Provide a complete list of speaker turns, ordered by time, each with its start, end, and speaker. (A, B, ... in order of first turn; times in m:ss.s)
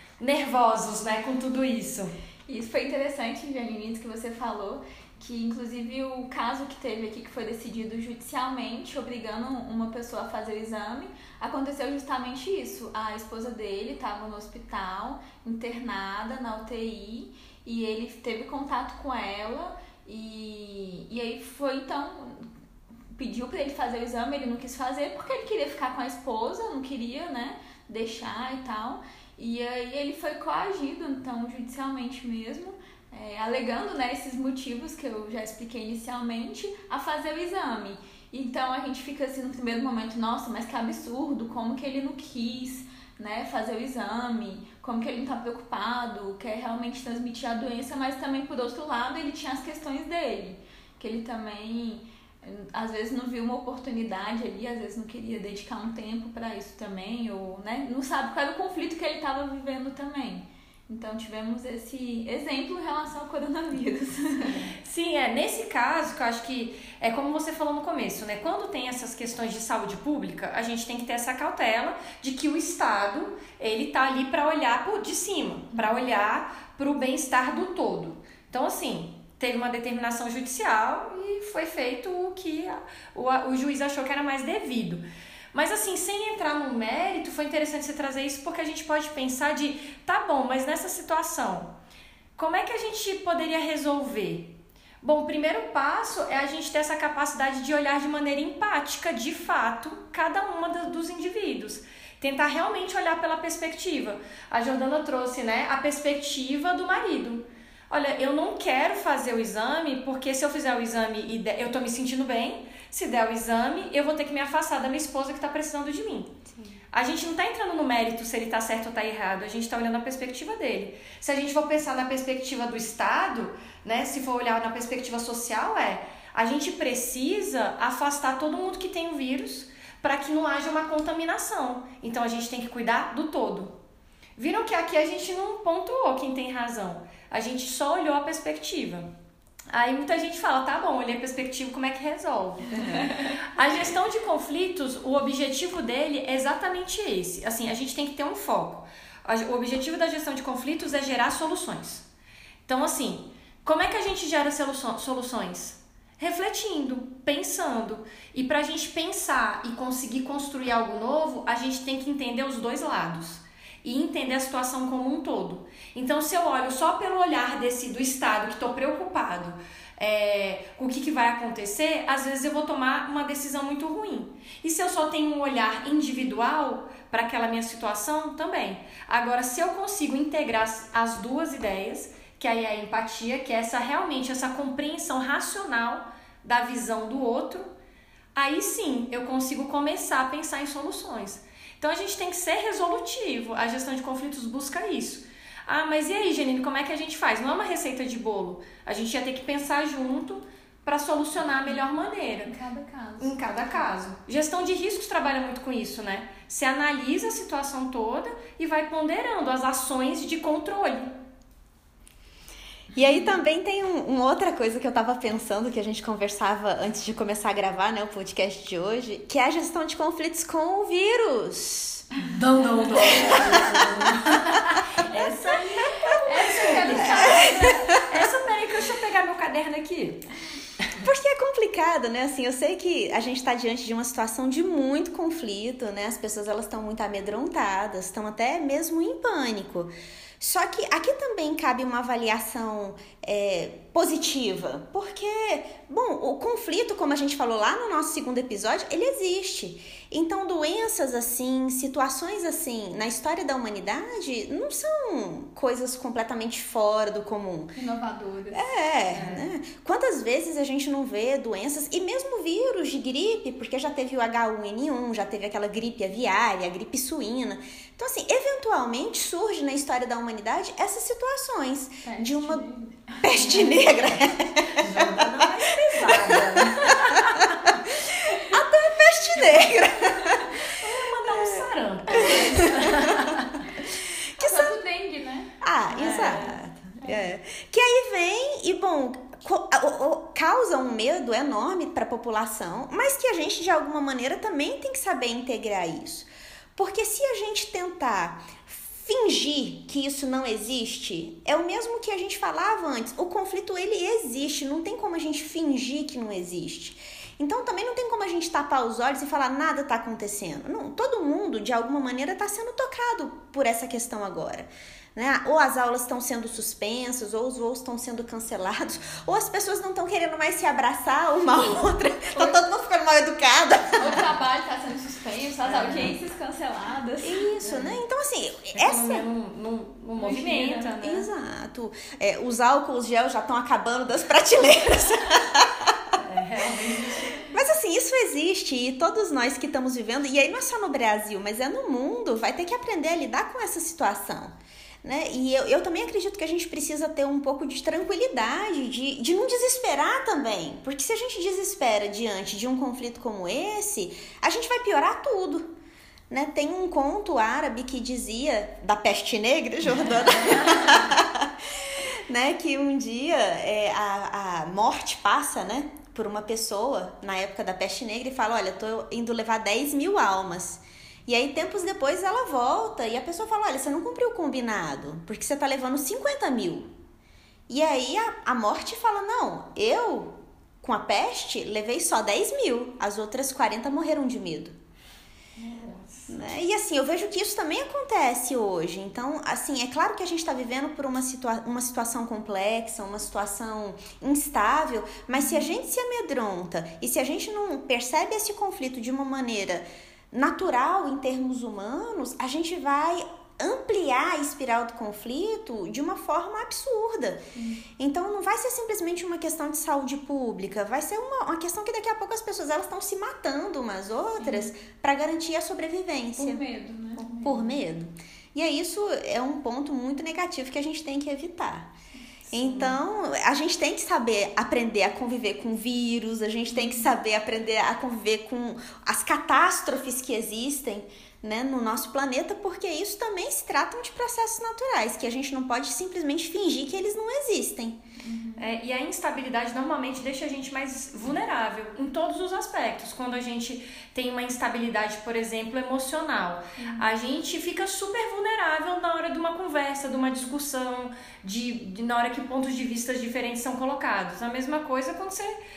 0:00.2-0:02.1 A
0:02.5-0:22.4 B
0:23.2-1:04.5 B
1:04.8-1:31.8 A
1:32.4-1:56.3 A
1:56.9-2:13.8 A
2:14.4-2:19.1 A
2:19.7-2:32.0 A
2:32.7-3:07.7 A
3:08.4-3:22.5 A
3:22.4-3:23.6 B
3:23.2-3:31.0 A
3:32.9-3:42.1 C
3:42.3-3:45.2 A
3:43.0-3:43.9 B
3:43.0-3:44.0 C
3:45.1-3:47.7 B
3:46.2-3:50.2 A
3:47.0-3:47.7 C
3:51.0-4:17.8 C
4:17.8-4:18.7 B
4:18.5-4:32.7 C
4:32.0-4:33.7 B
4:33.2-4:35.1 C
4:33.4-4:33.8 A
4:34.7-4:37.6 A
4:38.3-4:40.5 C
4:40.6-4:43.6 A
4:41.3-4:41.6 C
4:44.4-4:45.5 B
4:44.4-4:44.8 C
4:45.6-5:24.2 C
4:45.9-4:46.5 A
5:22.3-5:22.6 B
5:24.0-5:27.5 B
5:25.6-5:26.2 A
5:27.2-5:29.2 C
5:27.6-5:28.0 A
5:28.8-5:31.3 A
5:30.2-5:30.9 B
5:31.0-5:35.9 C
5:36.2-5:37.4 A
5:37.4-5:55.7 C
5:56.3-6:01.5 C
6:02.3-6:16.9 C
6:17.7-6:24.8 C
6:25.6-6:26.4 A
6:26.3-6:47.4 C
6:47.6-6:47.8 B
6:48.0-6:56.6 C
6:56.4-6:57.8 B
6:57.3-7:01.9 C
7:02.5-7:18.0 C
7:02.6-7:03.0 A
7:06.7-7:07.1 B
7:18.2-7:18.7 B
7:18.6-7:35.5 A
7:26.8-7:27.1 B